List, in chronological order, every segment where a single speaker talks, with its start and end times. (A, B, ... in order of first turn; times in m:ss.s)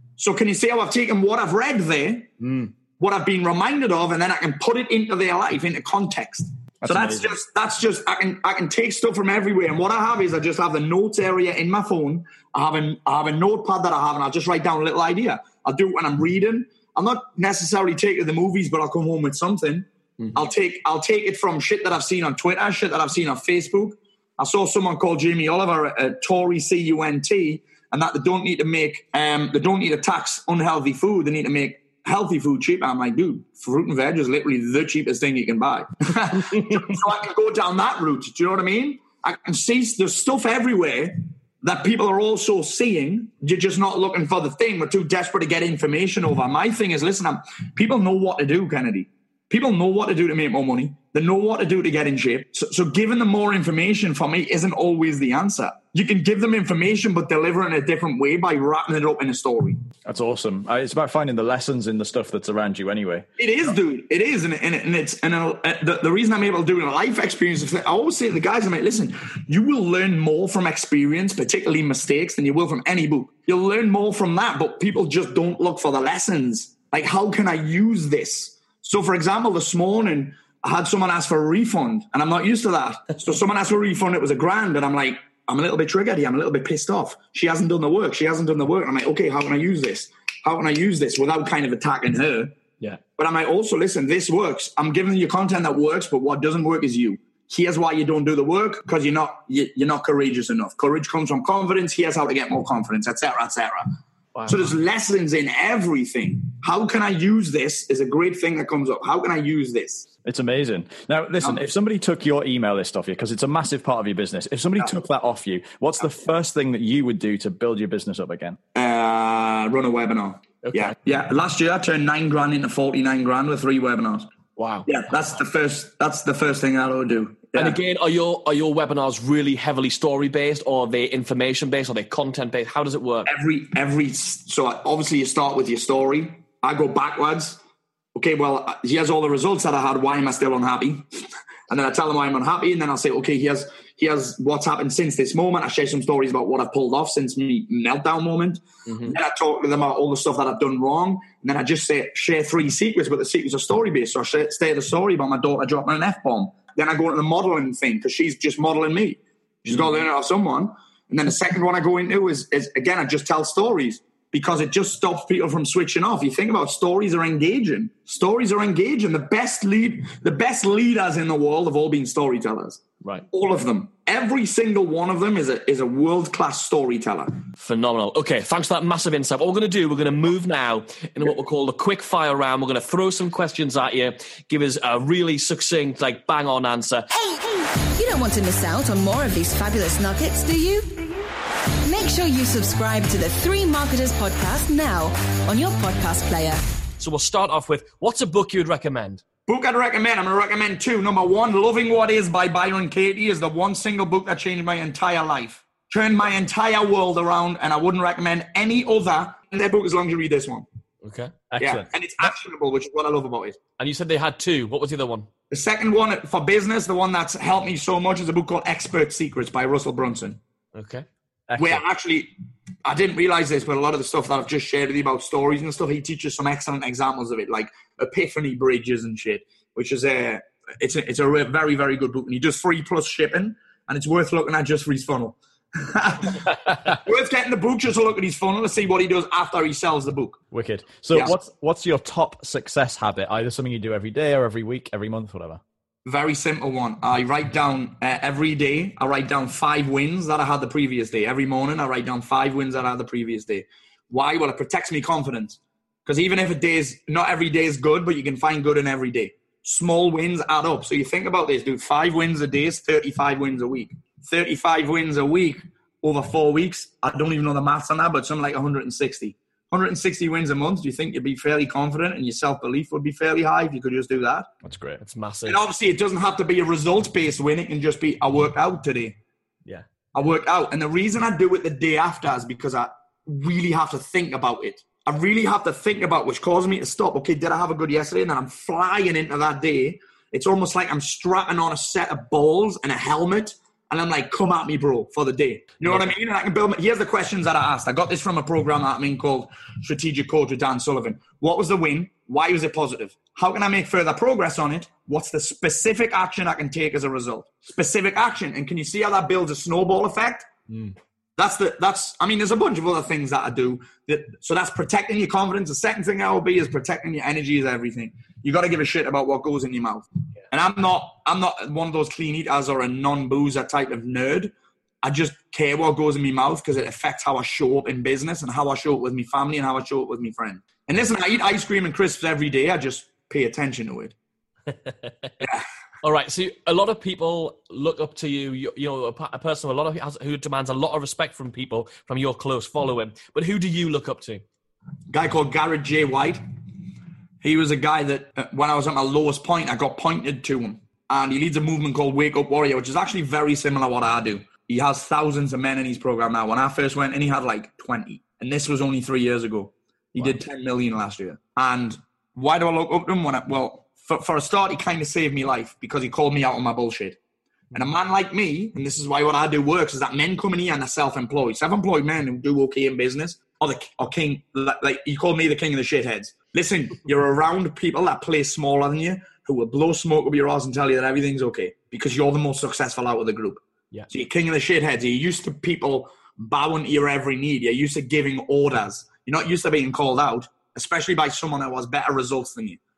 0:00.2-0:02.3 A
0:02.4-0:02.7 B
0:03.0-0:59.8 A
0:06.8-0:07.4 C
1:00.0-1:03.3 C
1:03.4-1:32.6 A
1:33.2-1:43.9 A
1:44.4-1:44.7 B
1:44.5-1:50.1 A
1:50.2-1:58.6 C
1:58.8-2:04.3 A
2:00.6-2:00.9 B
2:04.6-2:04.9 B
2:04.9-2:07.8 A
2:07.6-2:13.3 B
2:13.3-2:17.6 A
2:18.2-2:21.1 A
2:21.7-2:57.4 A
2:28.9-2:29.2 B
2:57.6-3:07.1 B
3:07.2-3:11.0 D
3:11.8-3:16.6 D
3:17.0-3:19.2 B
3:19.5-3:30.6 A
3:31.0-3:31.3 B
3:31.5-3:31.9 C
3:31.6-3:33.6 A
3:33.8-3:35.3 B
3:35.5-3:40.4 A
3:40.7-3:41.1 B
3:41.5-3:41.8 C
3:41.6-3:42.3 A
3:42.8-4:00.4 A
4:00.5-4:05.6 C
4:06.1-4:34.5 A
4:34.6-4:35.0 C
4:35.0-4:35.6 B
4:35.5-4:39.2 A
4:40.1-5:10.5 A
5:11.4-5:34.2 A
5:34.7-5:35.3 B
5:36.0-5:44.4 B
5:45.1-5:46.4 A
5:47.4-6:07.2 A
6:07.7-6:32.8 A